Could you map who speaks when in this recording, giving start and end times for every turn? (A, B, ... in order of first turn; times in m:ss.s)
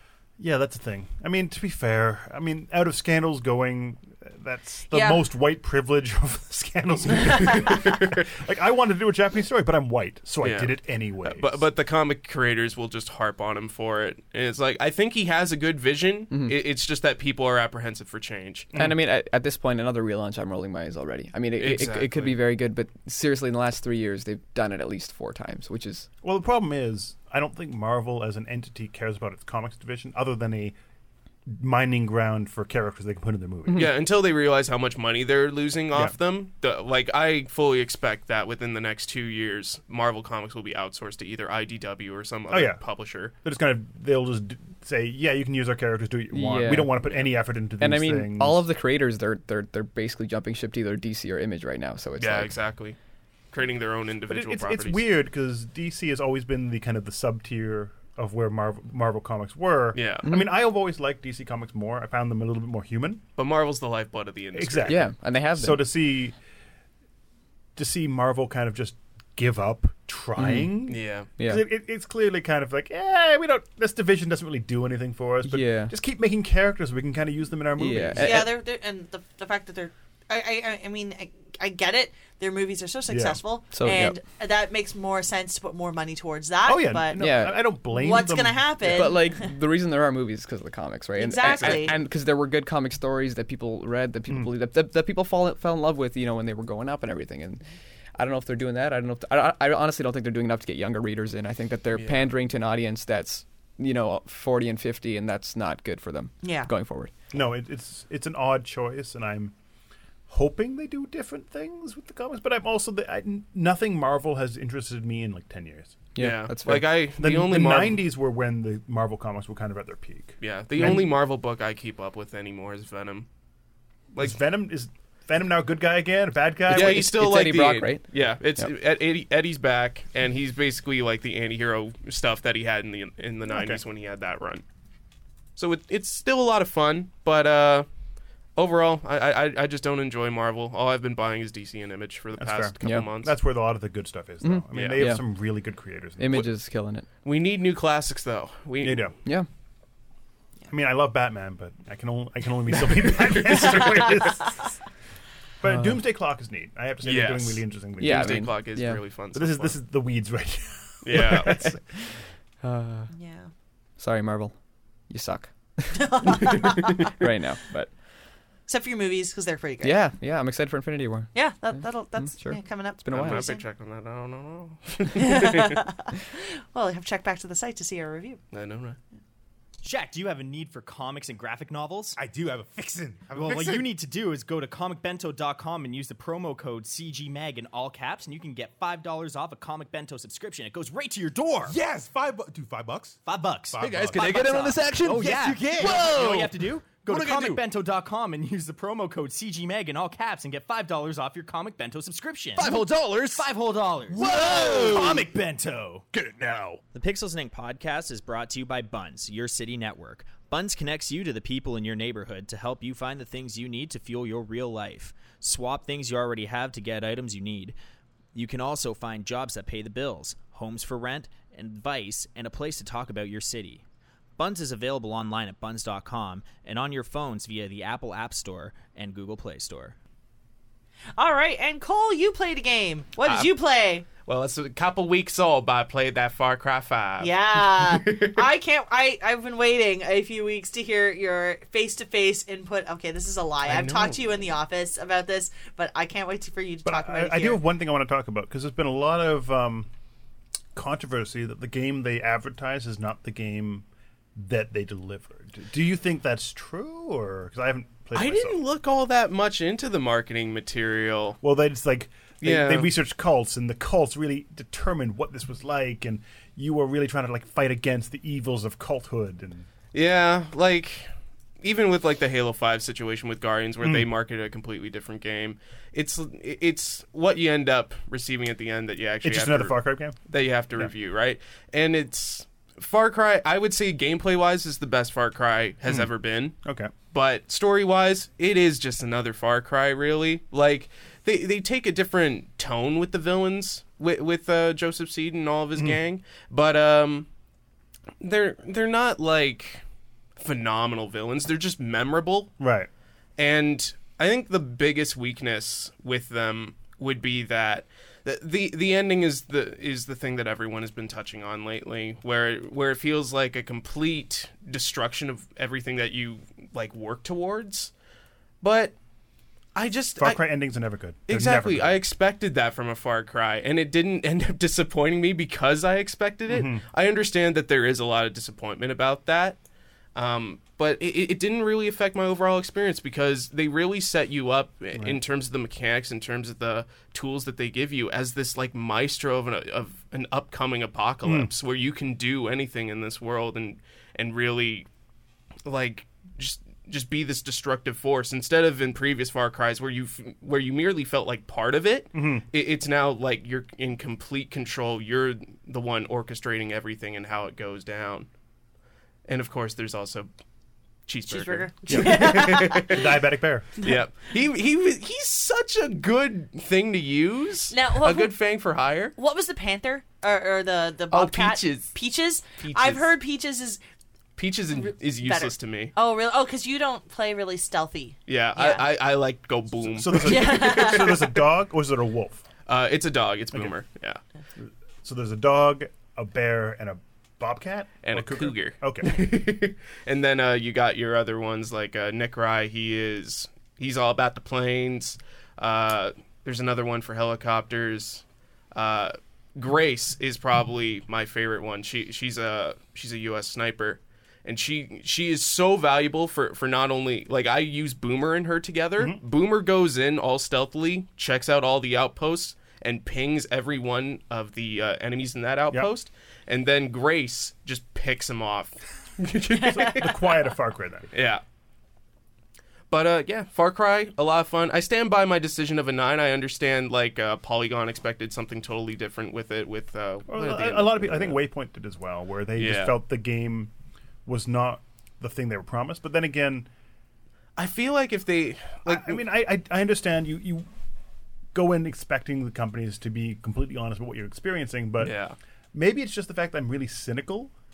0:00.4-0:11.6 A
0:04.9-0:05.3 B
0:07.7-0:08.2 C
0:10.4-0:18.7 C
0:16.3-0:16.6 D
0:18.7-0:19.0 A
0:18.7-0:26.1 D
0:21.6-0:22.4 C
0:26.2-0:30.8 A
0:31.5-0:33.9 A
0:33.7-0:43.3 C
0:42.5-0:42.8 A
0:43.4-0:48.6 A
0:46.3-0:47.0 D
0:47.8-0:52.5 D
0:52.2-0:53.0 C
0:53.5-0:55.0 C
0:54.3-1:03.2 A
1:00.0-1:00.3 C
1:00.3-1:00.5 D
1:03.4-1:05.1 C
1:04.5-1:06.4 A
1:04.9-1:05.8 D
1:07.8-1:18.5 A
1:10.4-1:10.7 D
1:10.9-1:11.3 C
1:11.4-1:11.6 D
1:15.4-1:15.9 D
1:17.8-1:18.5 D
1:18.2-1:29.5 B
1:23.1-1:23.4 A
1:23.7-1:24.2 D
1:26.7-1:29.2 A
1:27.2-1:27.6 D
1:28.9-1:37.6 D
1:31.2-1:32.0 B
1:31.4-1:32.0 C
1:38.2-1:47.1 D
1:41.9-1:42.3 C
1:46.4-1:46.7 B
1:47.3-1:49.5 A
1:50.3-1:56.0 A
1:56.2-1:56.9 D
1:56.2-1:58.0 C
1:57.2-2:01.0 A
2:00.4-2:03.3 C
2:04.2-2:07.1 A
2:06.7-2:08.0 D
2:06.7-2:14.6 C
2:13.5-2:13.8 A
2:15.6-2:17.9 C
2:18.6-2:23.3 C
2:22.4-2:26.5 A
2:24.4-2:25.2 D
2:24.7-2:25.1 C
2:26.2-2:27.1 D
2:27.2-2:29.1 C
2:28.8-2:29.1 A
2:30.7-2:34.6 A
2:32.9-2:34.3 C
2:35.6-2:38.6 A
2:35.7-2:36.0 D
2:37.0-2:39.8 C
2:38.0-2:39.0 D
2:39.3-2:41.8 A
2:41.0-2:41.7 C
2:42.6-2:43.1 D
2:43.1-2:43.5 B
2:44.0-2:44.6 D
2:45.1-2:47.9 D
2:45.9-2:47.1 B
2:48.7-2:50.0 B
2:49.8-2:53.5 D
2:51.3-2:53.6 B
2:53.1-2:55.8 C
2:55.2-2:58.4 B
2:58.5-2:59.0 C
2:59.8-3:02.2 E
3:02.2-3:03.8 F
3:02.5-3:03.3 A
3:03.4-3:11.8 E
3:11.6-3:13.2 F
3:12.4-3:13.1 A
3:13.2-3:26.1 E
3:13.7-3:17.7 F
3:22.6-3:23.5 F
3:24.1-3:25.4 F
3:26.1-3:26.8 F
3:26.9-3:37.8 E
3:38.3-3:43.8 E
3:44.4-3:50.0 E
3:51.2-3:54.0 B
3:53.2-3:53.5 C
3:54.2-3:58.4 C
3:57.2-4:07.6 B
4:03.6-4:04.2 C
4:06.8-4:09.9 A
4:10.8-4:18.6 A
4:18.1-4:21.4 C
4:21.4-4:29.7 A
4:22.4-4:22.9 C
4:29.9-4:31.1 C
4:31.6-4:46.6 C
4:33.8-4:34.1 A
4:39.2-4:40.2 A
4:46.6-4:46.9 A
4:47.1-4:57.3 C
4:58.2-4:59.8 C
5:00.4-5:02.5 C
5:02.6-5:02.9 A
5:03.4-5:17.9 C
5:18.6-5:19.0 C
5:19.8-5:20.4 C
5:20.2-5:22.0 A
5:21.3-5:29.6 C
5:26.5-5:26.8 A
5:30.2-5:44.9 C
5:34.9-5:35.2 A
5:41.2-5:41.5 A
5:45.6-5:58.3 C
5:52.1-5:52.4 A
5:59.3-6:00.3 C
6:01.1-6:03.2 C
6:01.3-6:03.0 B
6:01.9-6:03.7 A
6:03.8-6:09.2 C
6:07.7-6:08.4 B
6:09.2-6:13.8 B
6:11.1-6:11.9 C
6:12.6-6:13.1 C
6:14.4-6:15.9 C
6:14.8-6:18.8 B
6:18.3-6:21.1 C
6:19.9-6:22.5 A
6:20.2-6:21.3 B
6:22.7-6:24.2 C
6:25.0-6:29.2 A
6:28.0-7:00.3 C
6:59.7-7:01.1 A
6:59.7-7:00.0 B
7:01.1-7:01.4 C
7:02.9-7:11.4 C
7:10.3-7:13.7 A
7:12.6-7:13.0 C
7:14.3-7:16.7 A
7:17.6-7:19.2 C
7:18.9-7:20.7 A
7:21.5-7:25.1 A
7:25.0-7:25.4 C
7:25.7-7:27.5 A